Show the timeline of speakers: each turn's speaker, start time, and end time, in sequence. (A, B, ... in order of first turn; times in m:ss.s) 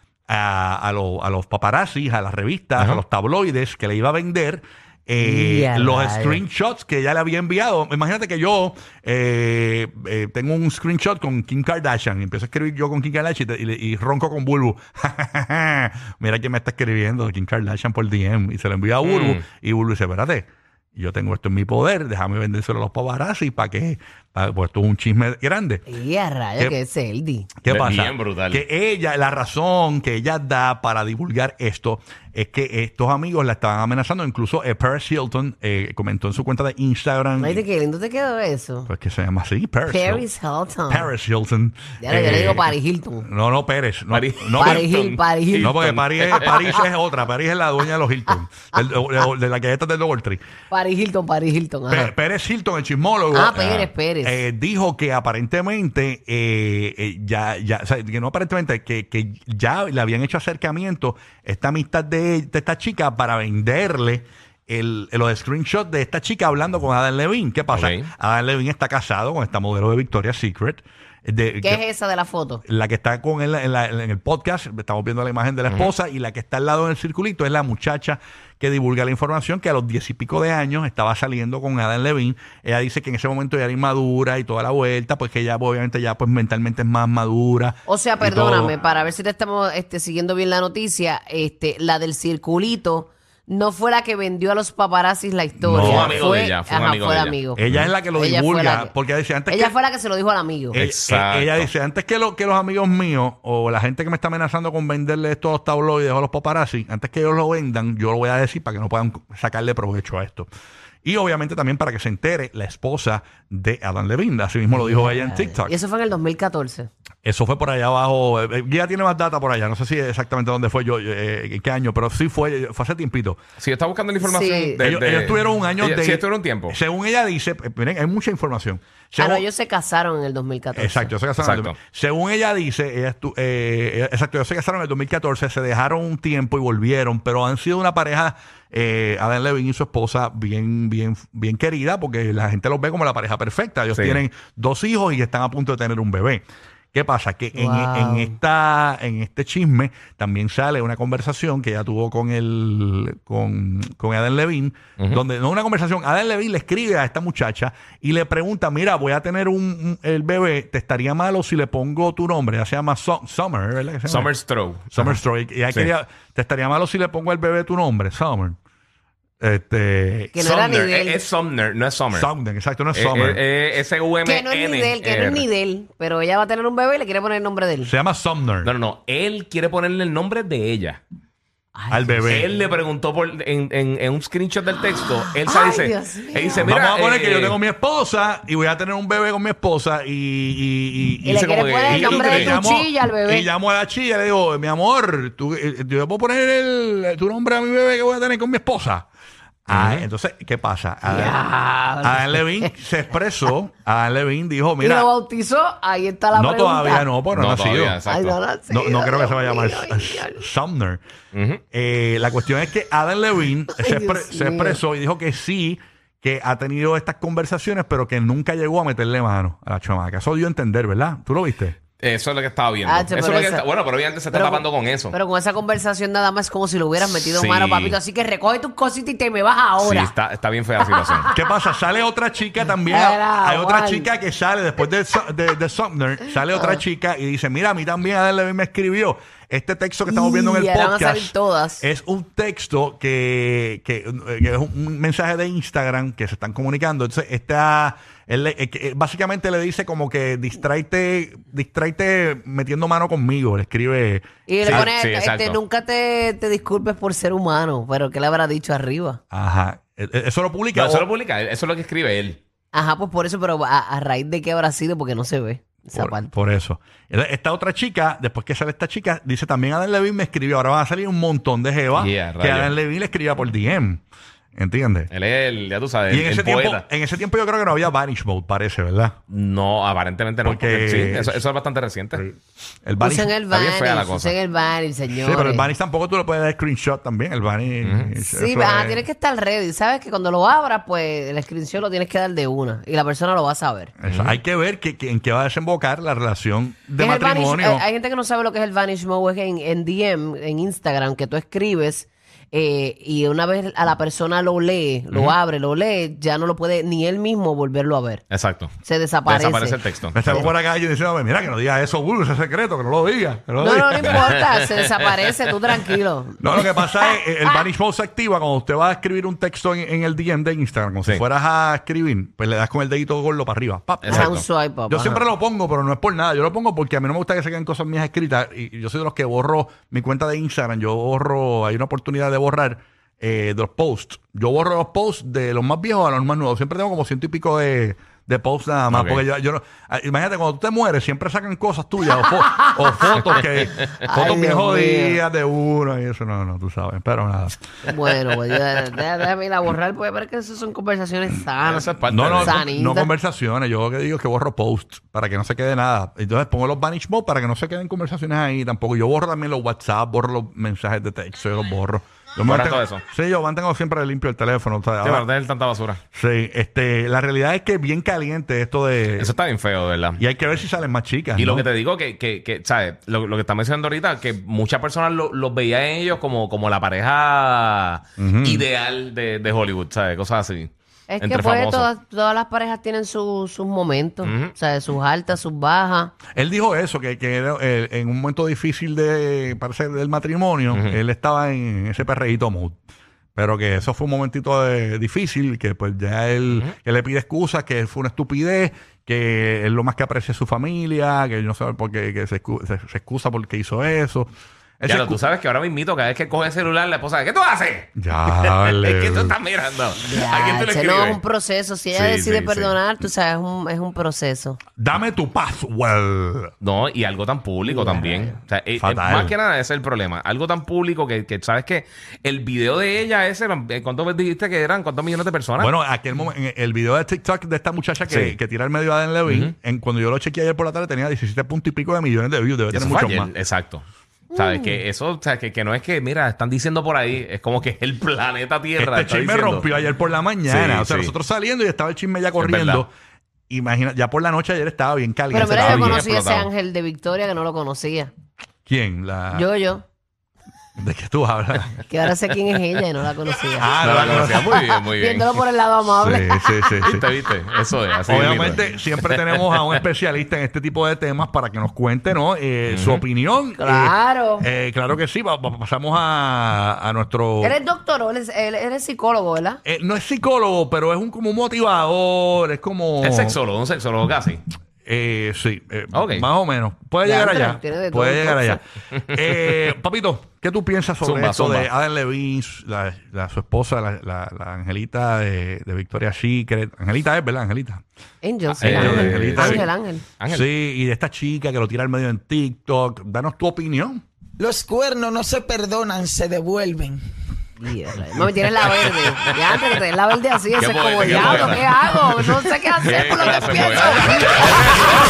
0:00.3-0:25.8 A
0:05.2-0:06.4 B
0:19.0-0:19.4 C
0:25.9-0:27.5 B
0:27.6-0:37.6 A
0:27.7-0:28.6 C
0:37.4-0:38.9 B
0:38.9-0:40.2 A
0:39.9-0:41.1 B
0:40.9-0:44.9 A
0:42.0-0:43.3 B
0:44.1-0:46.8 C
0:44.6-0:45.7 B
0:45.6-0:50.4 A
0:46.4-0:46.8 B
0:50.7-0:52.1 B
0:51.9-1:11.8 A
0:53.3-0:54.4 B
1:07.7-1:08.1 C
1:11.6-1:12.6 B
1:12.6-1:28.7 A
1:27.8-1:37.6 B
1:35.6-1:36.2 A
1:35.8-1:37.9 C
1:37.5-1:39.7 A
1:38.1-1:38.9 B
1:39.5-1:40.8 B
1:40.7-1:50.5 A
1:40.7-1:41.7 C
1:51.0-1:55.8 A
1:54.7-1:56.9 B
1:57.2-2:03.4 A
2:03.6-2:06.8 C
2:04.2-2:04.8 B
2:04.8-2:09.4 A
2:09.2-2:11.1 B
2:10.7-2:44.3 A
2:11.4-2:11.8 C
2:23.9-2:24.2 C
2:27.5-2:28.4 B
2:44.1-2:45.2 C
2:44.9-2:48.6 A
2:49.4-2:50.4 A
2:50.3-2:51.2 B
2:50.4-2:52.3 C
2:52.1-2:53.4 A
2:52.9-2:55.4 C
2:54.2-2:57.9 B
2:57.8-2:58.7 A
2:58.6-3:01.0 C
3:01.7-3:02.5 B
3:01.9-3:02.5 A
3:02.3-3:07.6 C
3:05.0-3:06.7 B
3:06.6-3:19.1 A
3:11.2-3:13.5 B
3:11.3-3:12.6 C
3:19.6-3:21.4 A
3:19.7-3:20.0 C
3:21.0-3:22.7 B
3:22.0-3:25.1 A
3:24.8-3:27.1 B
3:26.3-3:28.0 A
3:27.3-3:28.4 C
3:28.0-3:30.4 B
3:28.7-3:31.0 A
3:31.3-3:31.6 C
3:31.7-3:41.8 A
3:33.7-3:34.8 B
3:42.0-3:45.2 C
3:42.8-3:43.6 B
3:44.3-3:50.1 B
3:47.0-3:48.0 C
3:49.8-3:51.3 C
3:50.9-3:51.5 B
3:51.3-4:14.9 A
3:52.8-3:54.1 B
3:56.5-3:56.8 B
4:00.0-4:01.8 B
4:14.5-4:19.2 B
4:14.7-4:15.6 C
4:19.3-4:21.0 A
4:20.7-4:22.4 C
4:22.7-4:26.3 B
4:25.9-4:34.0 A
4:32.0-4:32.7 C
4:34.5-4:35.1 A
4:35.1-4:36.8 C
4:36.1-4:39.2 A
4:39.3-4:42.3 C
4:40.4-4:41.4 A
4:42.8-4:43.3 A
4:43.0-4:45.7 B
4:43.5-4:44.3 C
4:45.1-4:49.0 A
4:47.8-4:48.1 C
4:48.2-4:53.9 B
4:54.0-4:57.8 A
4:54.0-4:54.4 C
4:57.0-5:08.2 B
5:08.3-5:08.7 C
5:08.8-5:10.5 B
5:09.2-5:10.4 C
5:10.1-5:14.4 A
5:13.6-5:17.6 B
5:14.2-5:14.6 C
5:16.4-5:47.6 A
5:24.0-5:24.4 C
5:24.1-5:25.2 B
5:38.9-5:39.2 C
5:42.3-5:43.0 B
5:44.0-5:45.2 B
5:47.9-5:53.1 B
5:51.6-5:52.6 C
5:52.0-6:05.3 A
6:02.4-6:03.0 C
6:05.0-6:06.0 C
6:06.1-6:09.3 A
6:09.2-6:10.2 C
6:10.2-6:11.6 A
6:11.4-6:21.9 C
6:18.2-6:18.6 A
6:21.1-6:26.1 B
6:24.2-6:24.5 C
6:26.3-6:32.8 A
6:30.7-6:31.0 C
6:33.4-6:45.2 A
6:44.8-6:51.2 C
6:48.0-6:49.4 A
6:50.0-6:54.6 B
6:51.9-6:52.8 C
6:54.8-6:56.5 A
6:56.6-7:05.7 C
6:57.6-6:58.4 B
6:58.8-6:59.3 A
7:05.6-7:13.3 A
7:08.1-7:08.4 C
7:09.3-7:09.5 C
7:12.7-7:19.7 C
7:14.3-7:14.7 B
7:18.8-7:22.9 A
7:20.5-7:21.1 C
7:22.3-7:22.8 C
7:23.5-7:26.0 A
7:25.3-7:28.1 B
7:25.4-7:26.5 C
7:28.6-7:29.5 A
7:29.3-7:29.8 B
7:30.8-7:31.7 A
7:31.9-7:36.9 B
7:33.6-7:34.6 A
7:33.8-7:35.4 C
7:36.0-7:37.0 A
7:36.8-7:39.8 C
7:38.1-7:47.6 A
7:42.7-7:43.0 C
7:43.6-7:44.5 B
7:47.4-7:49.6 B
7:49.6-7:53.4 A
7:53.0-7:54.4 C
7:54.8-8:07.8 A
7:55.9-7:56.3 C
7:57.0-7:58.6 B
8:01.0-8:01.7 C
8:08.2-8:10.0 B
8:08.5-8:09.6 C
8:08.6-8:09.7 A
8:10.2-8:10.4 C
8:10.3-8:14.0 A
8:14.4-8:17.0 D
8:17.6-8:24.5 B
8:20.6-8:21.7 C
8:22.8-8:24.7 C
8:22.8-8:25.0 A